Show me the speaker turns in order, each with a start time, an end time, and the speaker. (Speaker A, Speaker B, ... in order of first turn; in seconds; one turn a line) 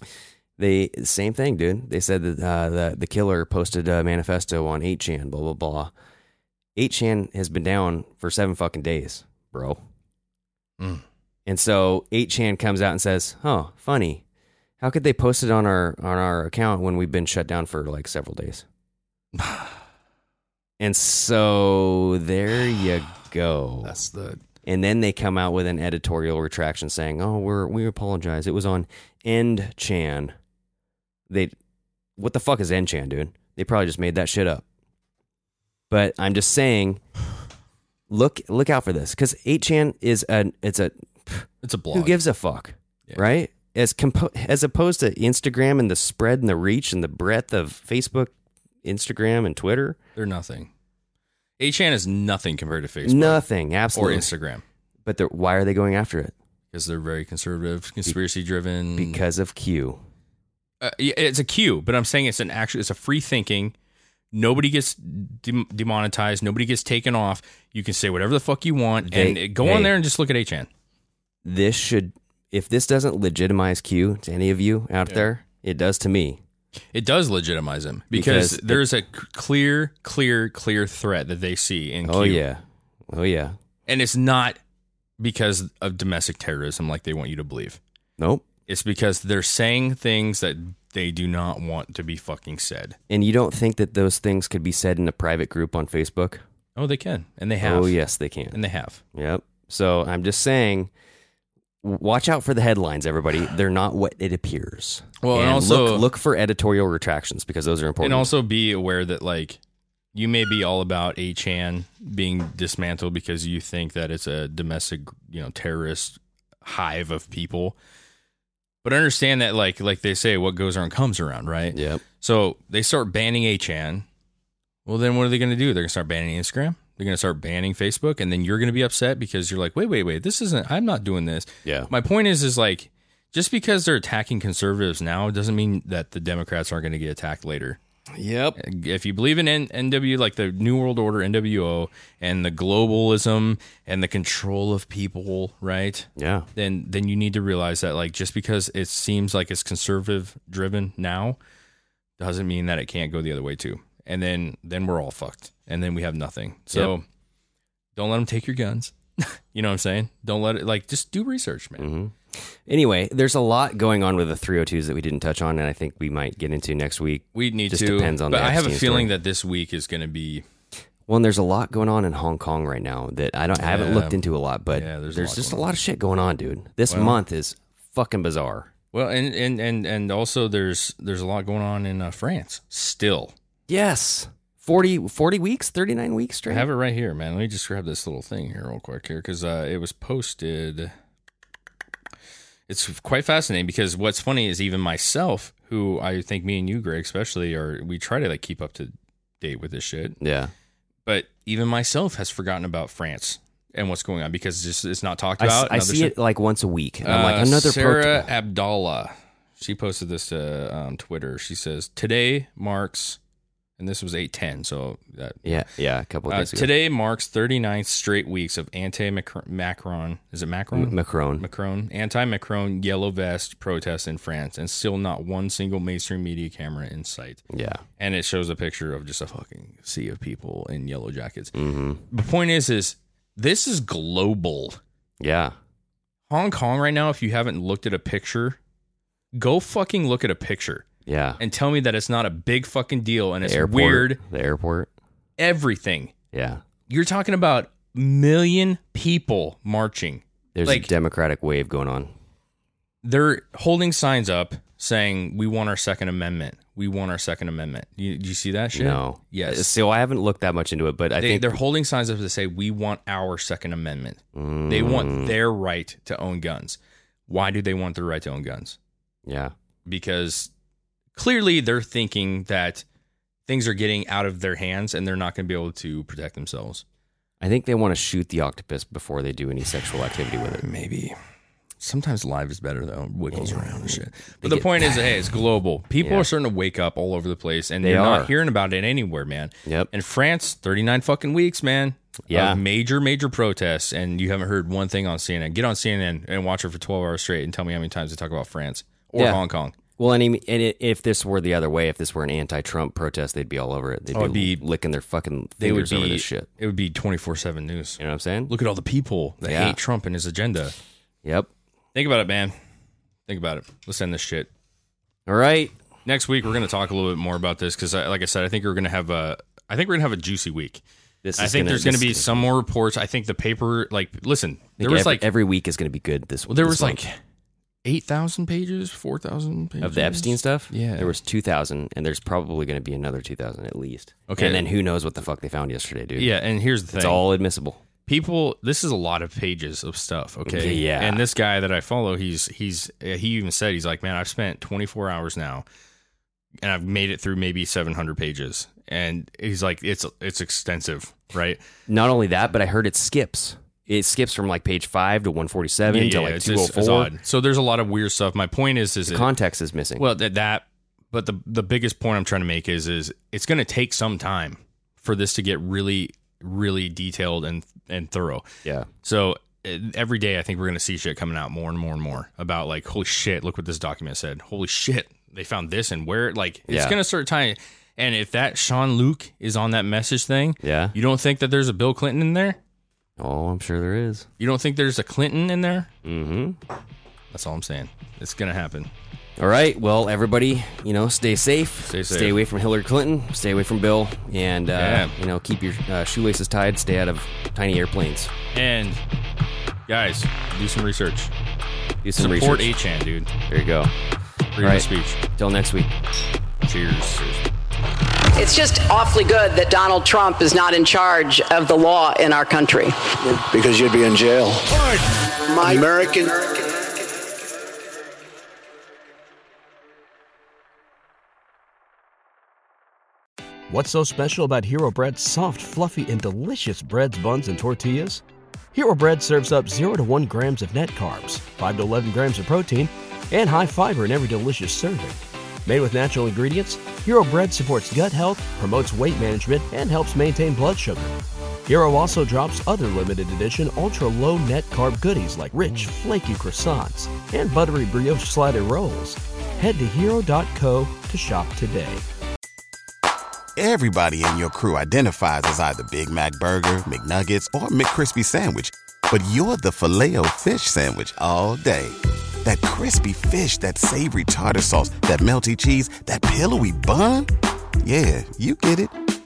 Speaker A: 0.6-5.9
Speaker A: 6.8-9.8
Speaker A: 11.5-14.2
Speaker A: 14.8-18.6
Speaker B: 19.4-19.7
Speaker A: 20.8-24.0
Speaker B: 23.8-24.4
Speaker A: 24.6-30.3
Speaker A: 31.3-31.5
Speaker A: 32.2-34.6
Speaker A: 35.9-37.0
Speaker A: 38.1-48.3
Speaker B: 41.6-42.2
Speaker A: 48.8-50.0
Speaker B: 50.2-50.7
Speaker B: 51.6-54.6
Speaker A: 53.0-54.3
Speaker A: 55.1-56.3
Speaker B: 56.7-59.2
Speaker A: 59.0-60.0
Speaker B: 60.8-63.7
Speaker B: 64.3-70.7
Speaker A: 69.0-70.0
Speaker A: 71.5-76.4
Speaker B: 76.9-82.4
Speaker A: 78.1-78.8
Speaker A: 82.0-83.6
Speaker B: 83.9-84.6
Speaker B: 85.2-87.8
Speaker A: 88.2-88.4
Speaker B: 88.7-93.0
Speaker A: 93.1-96.4
Speaker B: 96.8-98.0
Speaker A: 97.6-98.6
Speaker B: 98.5-99.0
Speaker A: 99.1-100.9
Speaker A: 101.8-108.3
Speaker B: 105.2-106.1
Speaker B: 108.0-109.6
Speaker B: 110.1-117.8
Speaker B: 118.8-124.1
Speaker A: 121.7-122.0
Speaker B: 124.9-137.8
Speaker A: 131.7-131.9
Speaker A: 138.2-138.6
Speaker B: 138.6-151.4
Speaker A: 146.2-146.5
Speaker B: 152.2-157.1
Speaker B: 157.9-161.9
Speaker A: 161.8-169.1
Speaker B: 167.3-170.4
Speaker A: 171.1-178.7
Speaker B: 173.5-174.2
Speaker B: 174.7-175.7
Speaker B: 176.9-177.2
Speaker B: 178.9-183.3
Speaker A: 183.7-186.7
Speaker B: 186.5-190.9
Speaker B: 192.7-200.2
Speaker A: 200.2-200.5
Speaker B: 201.1-206.2
Speaker A: 205.4-208.3
Speaker B: 207.0-213.2
Speaker B: 213.8-215.7
Speaker A: 215.4-216.7
Speaker B: 216.3-227.4
Speaker A: 220.7-221.4
Speaker A: 227.5-227.8
Speaker B: 228.0-231.5
Speaker A: 231.5-232.1
Speaker B: 232.1-234.8
Speaker A: 235.2-235.6
Speaker B: 236.3-238.6
Speaker B: 239.3-240.9
Speaker A: 241.1-241.4
Speaker B: 241.4-244.2
Speaker A: 243.4-244.9
Speaker B: 245.4-246.1
Speaker A: 246.3-246.6
Speaker B: 246.9-250.9
Speaker A: 250.6-252.1
Speaker B: 253.0-259.8
Speaker A: 258.7-261.5
Speaker B: 261.2-268.8
Speaker A: 264.3-265.4
Speaker A: 269.3-269.5
Speaker B: 269.9-270.5
Speaker B: 271.1-272.9
Speaker B: 273.5-276.8
Speaker A: 277.4-280.6
Speaker B: 280.6-281.2
Speaker B: 281.8-299.8
Speaker A: 283.3-285.0
Speaker A: 286.0-286.3
Speaker A: 287.8-288.3
Speaker A: 289.6-289.9
Speaker A: 292.3-292.6
Speaker A: 299.1-299.4
Speaker A: 300.0-306.5
Speaker B: 304.1-304.6
Speaker B: 305.6-310.8
Speaker A: 308.0-308.5
Speaker A: 309.4-309.8
Speaker A: 311.2-311.5
Speaker B: 311.9-312.6
Speaker B: 313.3-314.5
Speaker A: 315.3-315.8
Speaker B: 316.1-320.8
Speaker A: 321.2-322.5
Speaker B: 321.4-325.3
Speaker A: 324.8-327.0
Speaker B: 326.5-327.2
Speaker B: 327.8-331.1
Speaker A: 329.8-336.3
Speaker B: 334.3-334.6
Speaker B: 336.2-337.2
Speaker A: 336.9-337.8
Speaker B: 338.1-345.7
Speaker A: 340.4-341.2
Speaker B: 346.6-351.6
Speaker A: 351.9-357.1
Speaker B: 355.9-359.3
Speaker A: 359.1-360.1
Speaker B: 360.0-368.5
Speaker A: 368.6-368.9
Speaker B: 369.0-382.6
Speaker A: 376.7-377.0
Speaker A: 380.6-380.9
Speaker A: 383.2-384.3
Speaker B: 384.4-385.9
Speaker A: 386.0-386.6
Speaker B: 387.3-388.9
Speaker A: 389.4-398.3
Speaker B: 391.8-392.4
Speaker B: 394.7-395.1
Speaker B: 398.5-399.0
Speaker B: 399.9-401.3
Speaker A: 402.0-402.7
Speaker B: 402.2-403.3
Speaker A: 403.5-403.9
Speaker B: 404.6-405.2
Speaker A: 404.6-405.9
Speaker B: 406.6-407.4
Speaker C: 408.4-413.1
Speaker D: 413.2-414.7
Speaker D: 415.5-417.2
Speaker E: 423.7-441.1
Speaker E: 441.7-452.0
Speaker F: 453.6-467.3
Speaker F: 467.8-468.9